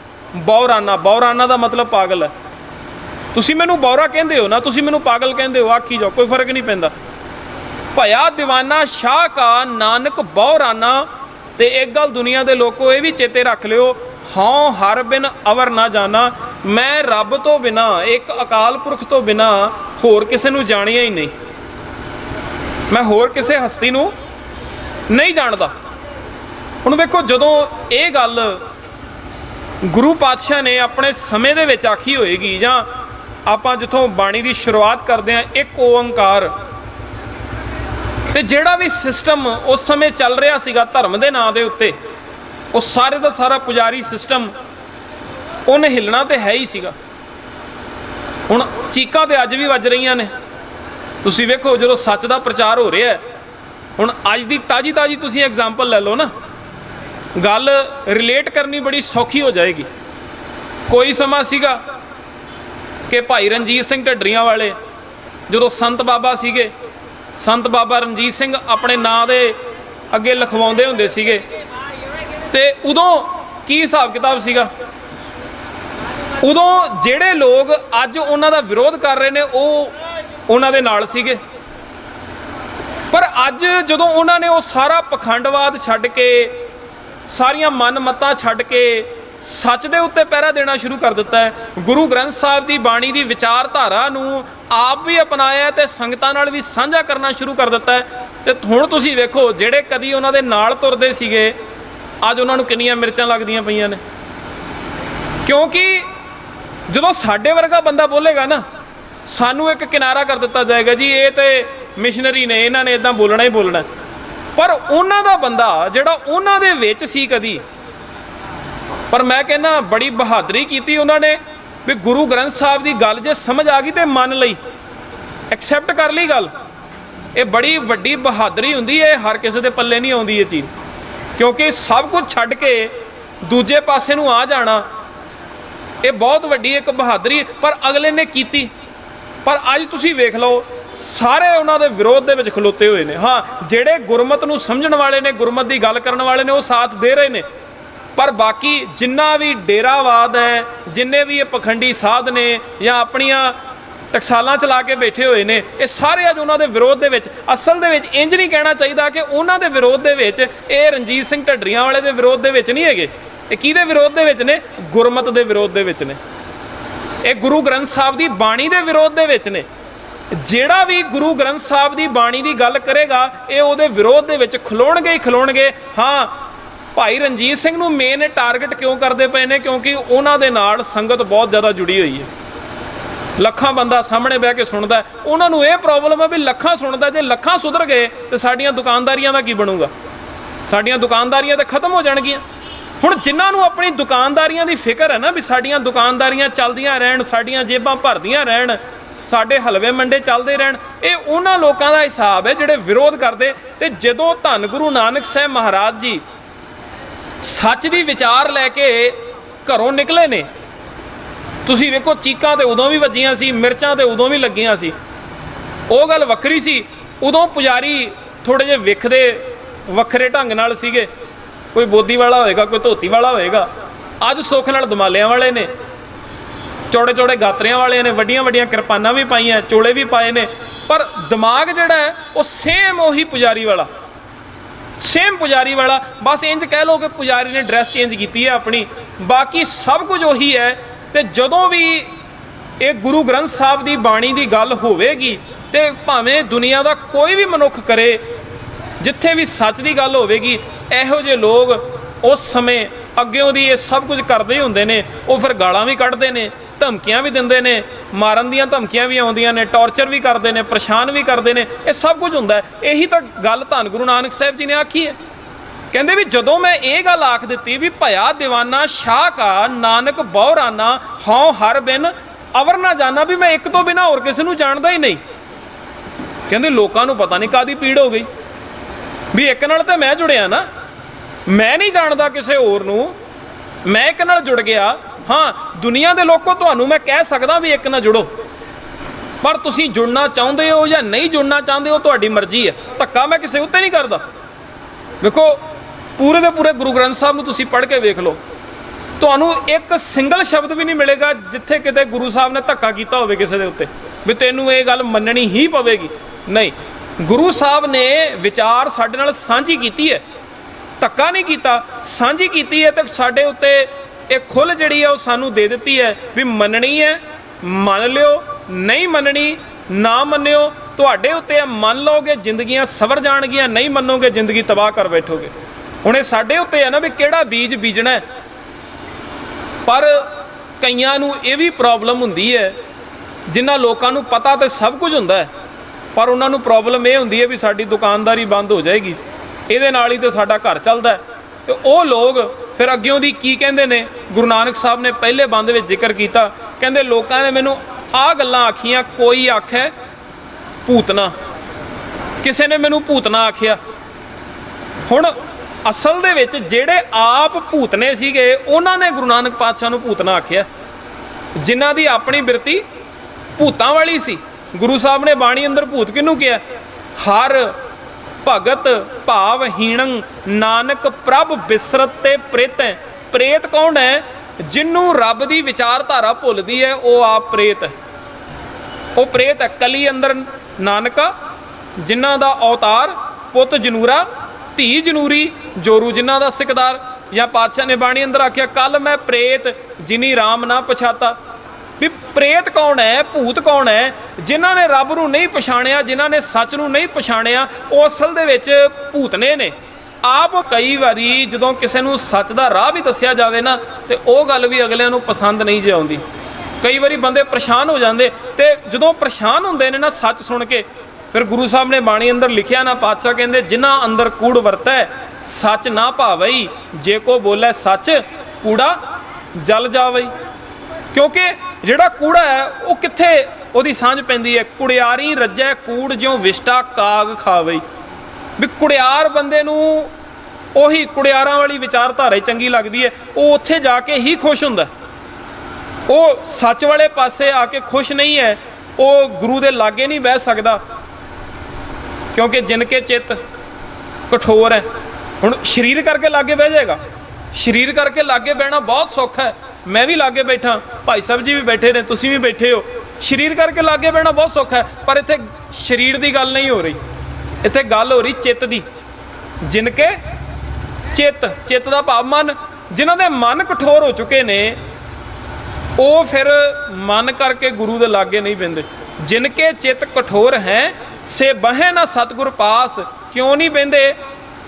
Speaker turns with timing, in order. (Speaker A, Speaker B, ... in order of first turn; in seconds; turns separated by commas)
Speaker A: 0.3-2.3, Speaker A: 3.3-6.9, Speaker A: 7.9-21.3, Speaker A: 22.9-24.1, Speaker A: 25.1-25.7, Speaker A: 26.8-28.6, Speaker A: 29.8-32.9, Speaker A: 33.5-36.5, Speaker A: 38.3-42.0, Speaker A: 42.7-44.5, Speaker A: 45.7-46.9, Speaker A: 48.5-50.3, Speaker A: 51.2-53.2, Speaker A: 54.0-56.3, Speaker A: 57.4-59.9, Speaker A: 60.9-61.8, Speaker A: 63.1-64.8, Speaker A: 65.5-66.7, Speaker A: 67.4-69.6, Speaker A: 70.1-71.4, Speaker A: 72.5-74.7, Speaker A: 76.4-80.0, Speaker A: 80.5-81.4, Speaker A: 83.1-86.6, Speaker A: 87.3-101.5, Speaker A: 102.2-104.0, Speaker A: 105.4-106.1, Speaker A: 106.9-108.6, Speaker A: 109.3-113.9, Speaker A: 114.5-117.6, Speaker A: 119.1-124.6, Speaker A: 125.5-126.5, Speaker A: 127.3-130.7, Speaker A: 131.4-134.8, Speaker A: 136.0-138.7, Speaker A: 139.4-147.5, Speaker A: 148.2-153.6, Speaker A: 154.1-166.2, Speaker A: 167.2-169.7, Speaker A: 170.3-176.3, Speaker A: 176.9-182.3, Speaker A: 183.4-189.9, Speaker A: 190.7-192.4, Speaker A: 193.0-206.2, Speaker A: 207.4-210.5, Speaker A: 211.7-214.9, Speaker A: 215.9-221.1, Speaker A: 221.7-223.7, Speaker A: 224.2-225.7, Speaker A: 226.9-233.9, Speaker A: 235.0-242.1, Speaker A: 242.8-248.2, Speaker A: 249.0-265.2, Speaker A: 265.9-275.2, Speaker A: 276.5-278.3, Speaker A: 279.3-280.7, Speaker A: 281.5-283.2, Speaker A: 283.9-288.3, Speaker A: 289.4-294.2, Speaker A: 295.2-295.6, Speaker A: 296.2-298.4, Speaker A: 299.2-310.2, Speaker A: 311.0-325.5, Speaker A: 326.0-328.2, Speaker A: 329.9-330.3, Speaker A: 330.8-332.8, Speaker A: 333.5-335.5, Speaker A: 336.1-349.9, Speaker A: 350.9-351.3, Speaker A: 352.4-353.8, Speaker A: 355.1-360.7, Speaker A: 361.6-362.8, Speaker A: 363.6-366.6, Speaker A: 367.2-367.7, Speaker A: 368.4-377.9, Speaker A: 379.2-381.3, Speaker A: 382.0-391.4, Speaker A: 392.0-406.2, Speaker A: 406.8-419.0, Speaker A: 419.6-420.3, Speaker A: 421.1-427.8, Speaker A: 428.6-430.1, Speaker A: 430.8-434.9, Speaker A: 436.1-440.8, Speaker A: 442.3-443.4, Speaker A: 444.3-444.9, Speaker A: 445.4-447.0, Speaker A: 447.5-457.0, Speaker A: 457.6-458.9, Speaker A: 459.6-460.2, Speaker A: 461.1-464.8, Speaker A: 466.0-474.2